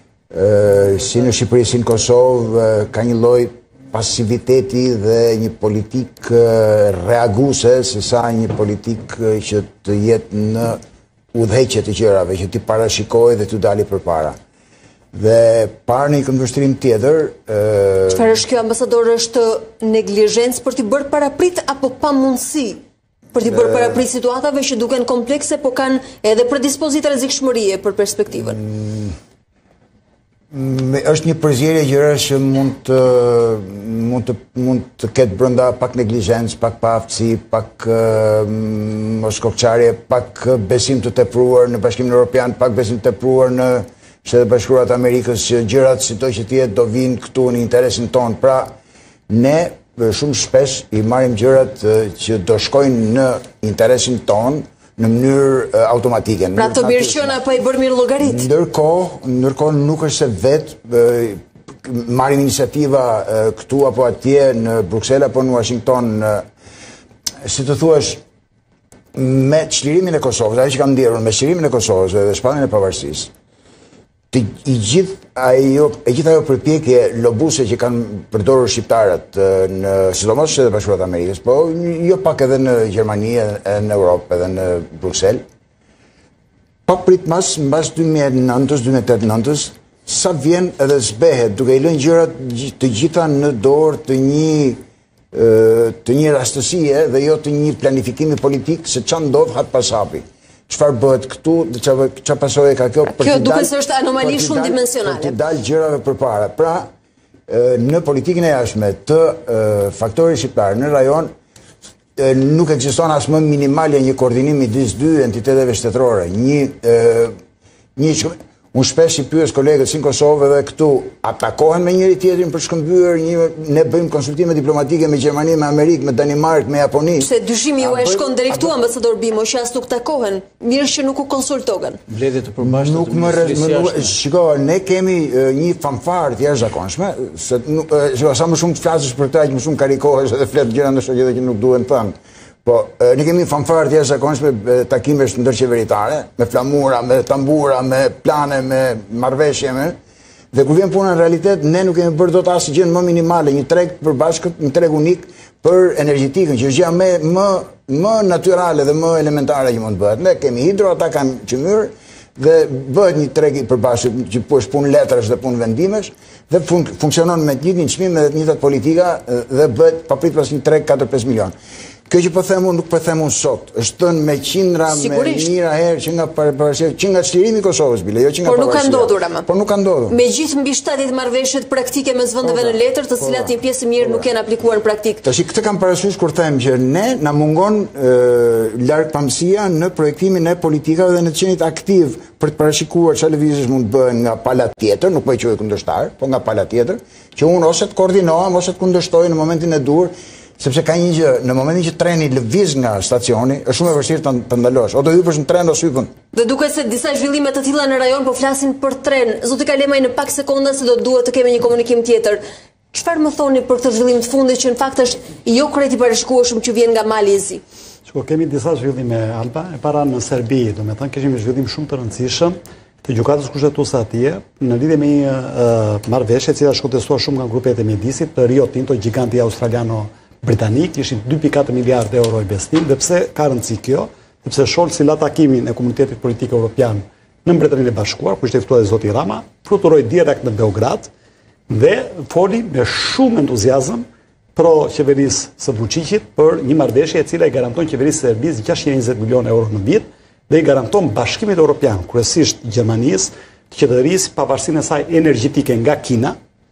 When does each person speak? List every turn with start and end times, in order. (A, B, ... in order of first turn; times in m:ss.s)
0:00.3-0:10.8 A
0:11.3-0:14.4 A
0:15.1-0:18.4 A
0:18.1-0:22.8 B
0:23.3-0:28.6 B
0:23.3-0:24.0 A
0:28.3-0:29.2 A
0:30.5-0:48.7 A
0:49.3-0:57.4 A
0:56.6-0:58.4 B
0:58.2-1:06.4 A
1:07.4-1:08.2 A
1:09.1-1:13.3 A
1:14.3-1:25.4 A
1:26.8-1:34.8 A
1:35.3-1:46.9 A
1:43.1-1:45.3 B
1:47.5-1:51.3 A
1:52.2-1:57.3 A
1:58.0-2:08.7 A
2:07.2-2:12.0 B
2:12.1-2:14.2 C
2:12.6-2:22.1 A
2:22.6-2:30.0 A
2:30.5-2:51.5 A
2:52.1-3:00.2 A
2:54.9-2:55.5 B
2:58.4-2:59.5 B
3:00.1-3:05.2 B
3:02.4-3:04.2 A
3:05.2-3:26.1 A
3:26.3-3:32.4 B
3:32.9-3:37.6 B
3:38.1-4:01.1 D
4:01.7-4:16.4 D